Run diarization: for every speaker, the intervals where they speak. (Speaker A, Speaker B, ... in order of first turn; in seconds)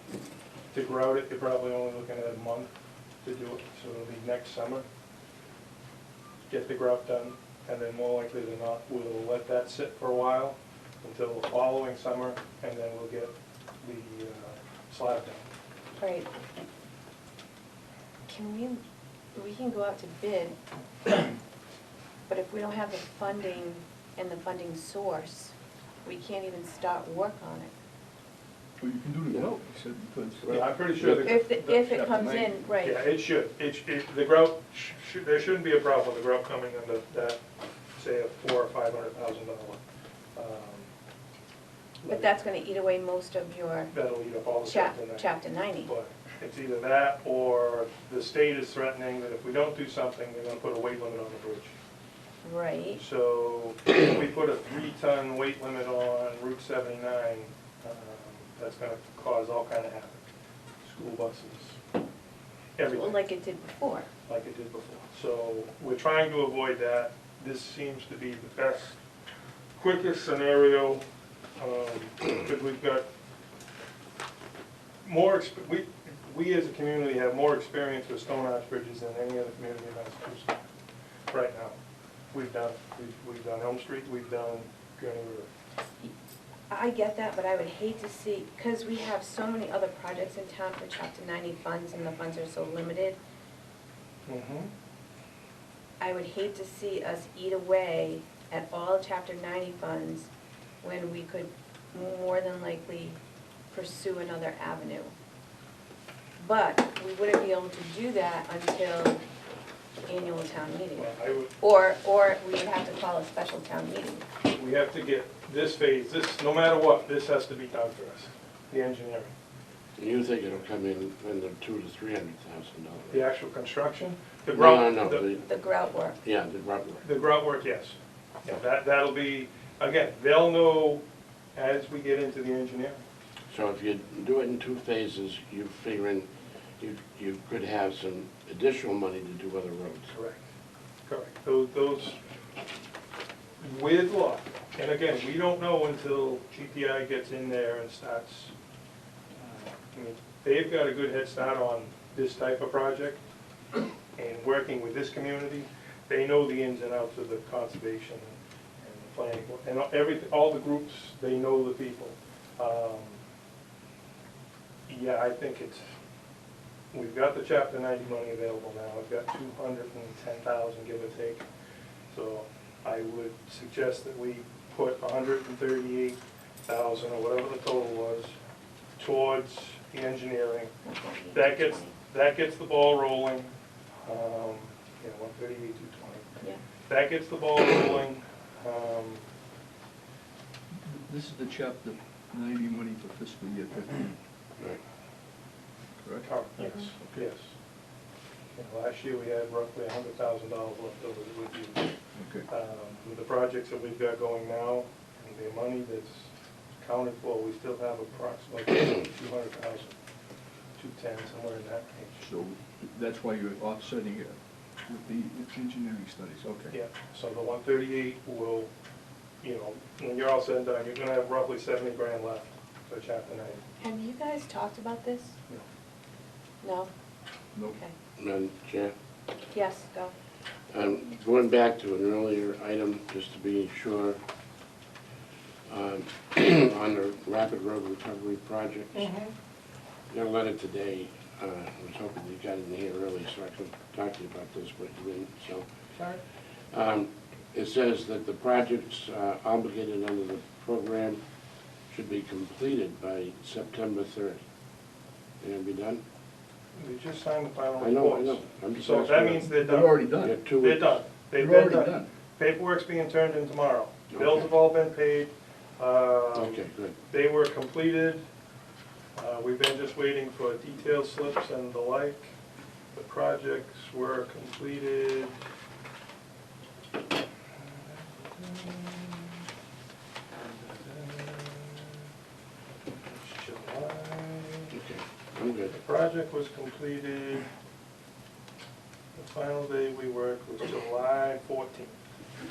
Speaker A: 0.7-2.7, 3.2-4.8, 6.5-15.5, 30.5-31.8, 32.8-37.4, 38.0-39.8, 40.3-40.9, 42.0-42.3, 43.9-51.7, 53.0-60.3, 60.8-61.8, 62.8-63.2, 64.3-69.0, 69.8-71.0, 71.6-73.0, 75.0-80.7, 81.3-81.8, 82.3-85.5, 94.2-94.7, 111.0-111.5, 114.4-119.3, 123.1-125.2, 127.0-131.0, 131.5-133.0, 140.1-140.5, 141.1-142.2, 143.6-148.5, 149.4-153.2, 154.1-163.2, 164.9-165.8, 166.9-171.4, 172.1-178.3, 179.0-180.7, 181.3-183.5, 184.0-189.2, 196.2-197.5, 198.5-201.9, 202.5-210.0, 210.8-212.2, 216.7-218.7, 219.4-223.6, 238.9-239.3, 245.9-246.2, 256.8-260.0, 260.6-268.2, 269.1-272.3, 272.9-275.3, 277.6-279.4, 280.4-282.0, 283.1-284.8, 285.7-287.5, 289.1-292.0
Speaker B: 16.0-16.3, 18.3-18.8, 19.3-21.3, 22.3-27.7, 31.0-33.0, 42.1-43.9, 44.6-45.9, 52.4-53.0, 62.9-64.1, 86.7-93.2, 96.0-100.3, 100.8-103.2, 103.7-105.1, 106.4-109.2, 110.1-114.2, 125.4-126.2, 180.8-181.9, 223.8-225.3, 226.6-226.9, 227.7-227.9, 229.5-230.1
Speaker C: 28.8-32.6, 190.8-194.2, 196.0-196.3, 196.8-197.2, 202.2-202.4, 212.2-216.7, 259.6-260.4, 261.3-262.1
Speaker D: 120.0-123.2, 124.5-125.5, 126.2-127.0, 133.5-136.3, 136.8-140.1, 228.2-228.9, 230.7-234.2, 235.7-239.1, 240.1-245.7, 246.7-251.2, 251.9-254.4, 255.4-256.0, 257.8-259.5, 260.2-261.0, 264.1-264.5, 266.3-266.9, 284.7-285.7